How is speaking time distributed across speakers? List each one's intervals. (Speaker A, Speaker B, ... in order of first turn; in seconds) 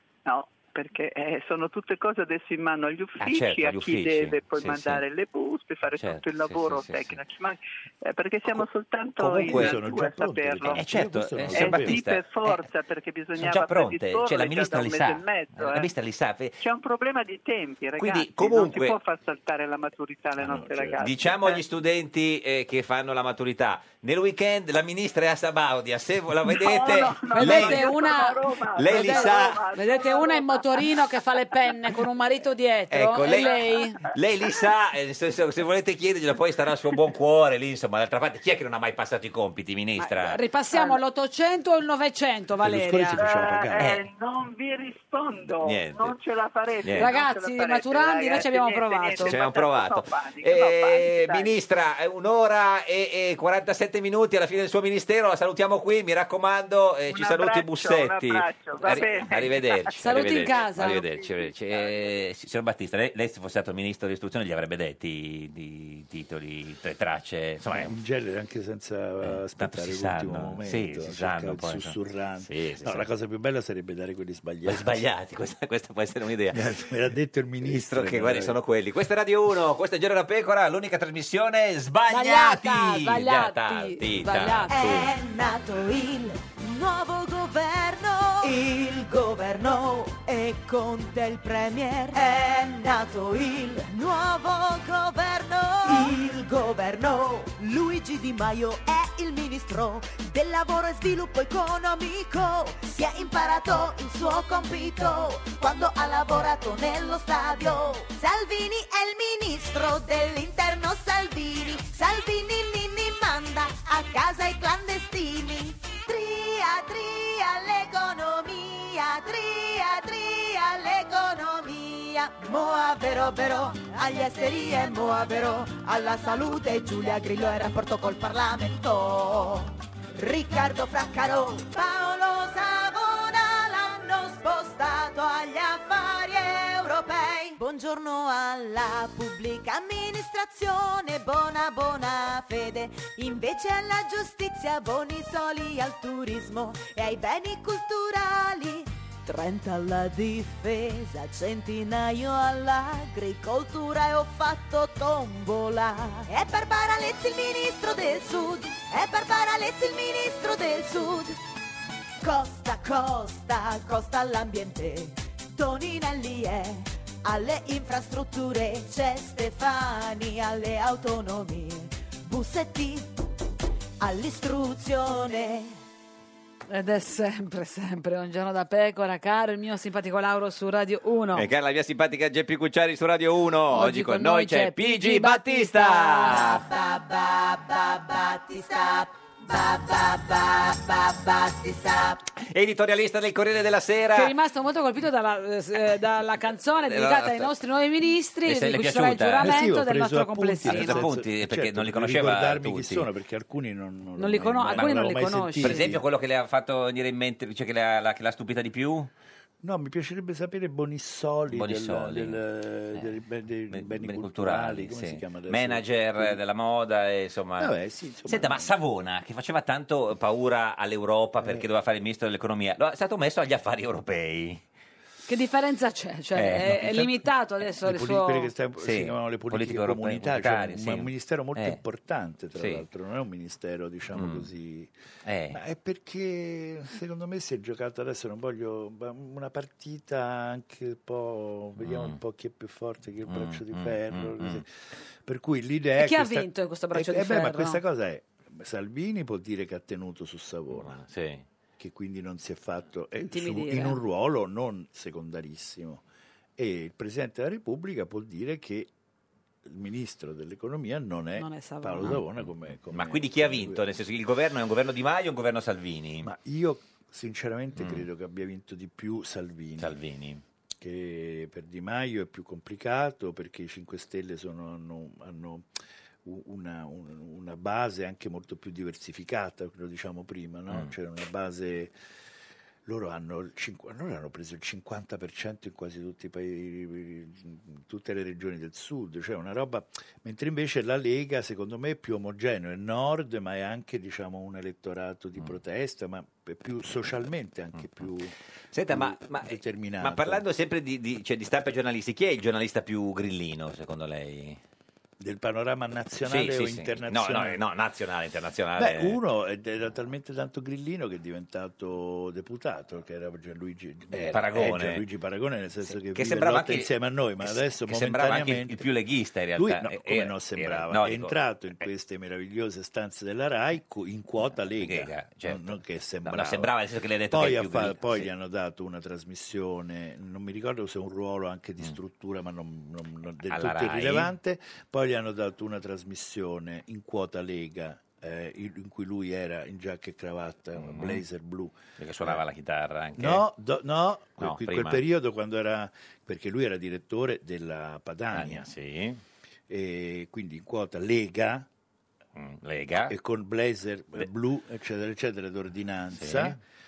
Speaker A: 0.3-10.8, 11.5-15.9, 16.6-21.6, 26.5-31.1, 33.3-34.1, 40.7-41.0, 43.2-51.5, 57.1-62.1
Speaker B: 3.2-5.0, 5.9-7.2, 9.2-9.9, 10.7-12.7, 13.4-16.6, 18.0-19.0, 21.0-29.6, 32.9-40.4, 43.8-44.0, 45.5-46.2, 46.8-47.2, 49.2-68.0, 69.2-73.1, 74.7-76.8, 77.6-85.1, 181.3-186.6, 192.4-194.3, 196.8-197.5, 198.4-199.7, 200.6-203.1, 205.6-209.1, 211.5-212.4, 213.7-224.6, 226.3-227.0, 228.8-231.8, 232.6-232.9, 234.1-234.5, 235.2-235.6, 241.8-242.2, 243.3-244.6, 250.7-251.4, 262.0-266.3, 267.8-268.1, 269.8-270.4, 280.7-280.9, 297.8-298.1, 298.7-304.6, 306.2-309.2, 314.1-315.1, 315.8-321.9, 324.8-328.3, 333.4-334.3, 340.8-341.2, 342.0-343.5, 344.4-345.1, 348.3-349.2, 352.4-353.2, 356.1-356.6
Speaker C: 9.2-12.0, 20.4-21.0, 42.6-43.9, 67.7-75.0, 76.5-78.6, 199.4-206.0, 209.6-216.4, 217.6-218.7, 221.4-221.7, 226.8-227.1, 227.8-234.9, 235.5-244.7, 245.3-251.0, 251.8-256.0, 256.6-258.9, 259.7-263.8, 266.2-270.0, 270.8-275.7, 276.2-281.9, 282.9-298.3, 298.9-300.4, 305.2-307.6, 308.8-318.9, 319.6-326.7, 327.3-342.4, 343.2-348.7, 349.7-351.7, 353.1-356.6
Speaker D: 27.3-34.0, 40.0-43.2, 47.0-49.4, 60.0-61.0, 82.1-84.9, 176.7-181.5, 183.7-186.4, 194.2-201.1, 204.2-205.9, 225.3-228.5, 246.0-247.8, 253.3-254.0, 261.4-262.2
Speaker E: 84.7-161.4, 162.2-173.1, 174.0-175.7, 186.3-192.2